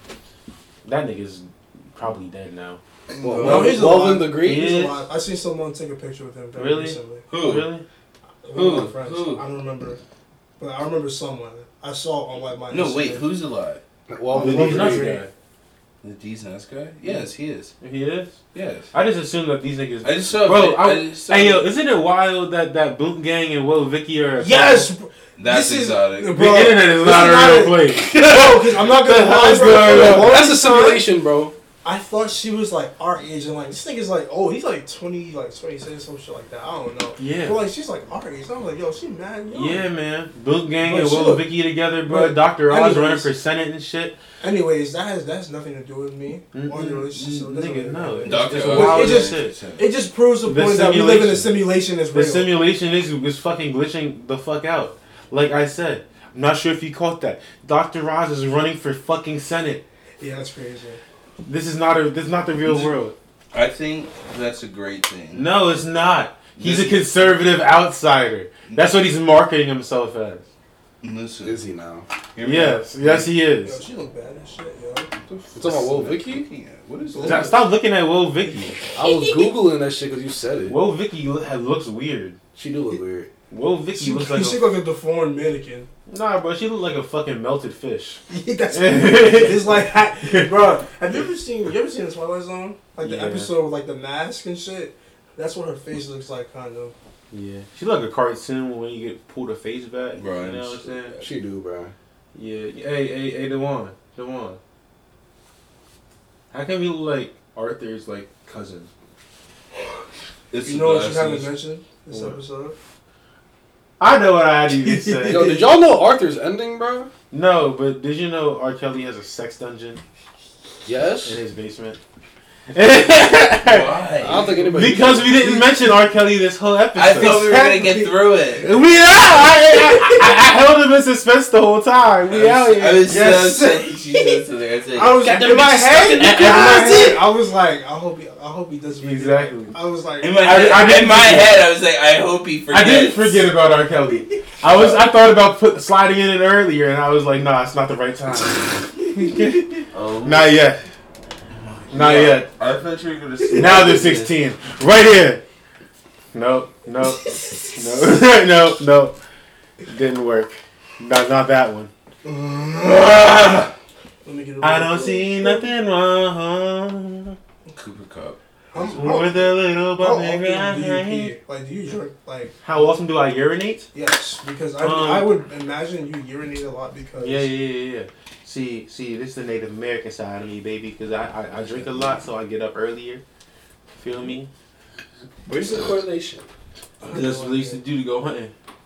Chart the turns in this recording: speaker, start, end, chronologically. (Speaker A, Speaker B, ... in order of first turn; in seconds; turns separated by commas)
Speaker A: 0.8-2.8, Speaker B: 3.1-3.8, Speaker C: 3.2-4.7, Speaker D: 3.4-7.2, Speaker A: 4.4-5.0, Speaker A: 6.5-7.8, Speaker B: 7.3-7.7, Speaker D: 8.4-10.0, Speaker B: 8.5-9.4, Speaker D: 10.6-13.3, Speaker B: 12.7-13.8, Speaker C: 14.1-15.2, Speaker D: 14.3-15.2, Speaker A: 14.3-15.3, Speaker B: 16.0-17.7, Speaker A: 17.8-18.4, Speaker B: 18.5-18.9, Speaker A: 18.9-24.9, Speaker B: 20.0-21.7, Speaker D: 24.4-31.1, Speaker B: 25.4-26.5, Speaker A: 26.3-30.4, Speaker C: 28.1-28.6, Speaker C: 29.8-31.5, Speaker D: 31.8-39.8, Speaker A: 37.2-37.6, Speaker A: 39.5-44.2, Speaker D: 40.8-41.5, Speaker D: 42.1-43.3, Speaker D: 44.4-52.5, Speaker A: 46.5-49.6, Speaker B: 48.2-49.8, Speaker A: 50.5-51.5, Speaker A: 52.1-59.8, Speaker D: 60.2-61.0, Speaker A: 61.5-63.1, Speaker B: 62.6-63.0, Speaker B: 63.5-65.5, Speaker A: 65.3-70.5, Speaker B: 66.6-67.4, Speaker B: 68.7-68.9, Speaker B: 71.0-71.6, Speaker C: 71.4-72.1, Speaker B: 72.3-73.3, Speaker A: 72.4-73.8, Speaker D: 73.6-75.1, Speaker B: 75.2-77.5, Speaker C: 75.5-76.5, Speaker D: 77.1-77.6, Speaker A: 77.2-78.8, Speaker C: 79.0-80.8, Speaker A: 80.7-82.4, Speaker C: 82.6-83.3, Speaker A: 83.5-84.6, Speaker D: 83.9-85.9, Speaker A: 86.1-90.6, Speaker D: 88.3-97.0, Speaker A: 93.0-93.5, Speaker A: 97.3-101.2, Speaker B: 100.1-101.2, Speaker C: 101.2-101.9, Speaker A: 102.3-104.6, Speaker A: 106.5-108.9, Speaker B: 110.5-111.5, Speaker D: 110.7-112.8, Speaker A: 112.1-112.4, Speaker A: 114.0-115.6, Speaker D: 114.8-115.7, Speaker C: 115.2-117.1, Speaker A: 117.3-120.0, Speaker C: 120.8-121.4, Speaker A: 121.2-122.0, Speaker A: 122.7-124.0, Speaker B: 123.6-124.7, Speaker C: 124.2-125.6, Speaker A: 124.7-127.8, Speaker B: 127.0-128.7, Speaker D: 127.1-128.1, Speaker A: 128.6-133.3, Speaker D: 129.7-130.2, Speaker B: 132.3-135.3, Speaker D: 133.0-134.4, Speaker D: 134.9-140.4, Speaker C: 135.2-137.2, Speaker A: 139.0-139.7, Speaker B: 140.2-143.4, Speaker A: 140.4-141.6, Speaker A: 142.7-150.8, Speaker B: 144.6-145.0, Speaker B: 149.9-150.6, Speaker B: 151.5-154.3, Speaker A: 151.9-152.5, Speaker A: 153.6-155.4, Speaker A: 156.3-159.2, Speaker A: 159.9-161.9, Speaker B: 162.5-163.7, Speaker D: 164.2-165.7, Speaker A: 164.6-167.4, Speaker B: 167.7-169.3, Speaker D: 168.7-172.8, Speaker A: 169.0-171.3, Speaker A: 172.6-173.9, Speaker D: 173.9-177.5, Speaker A: 174.8-175.3, Speaker A: 177.2-183.2, Speaker A: 184.0-184.5, Speaker B: 185.4-186.4, Speaker D: 187.0-187.8, Speaker A: 187.1-188.5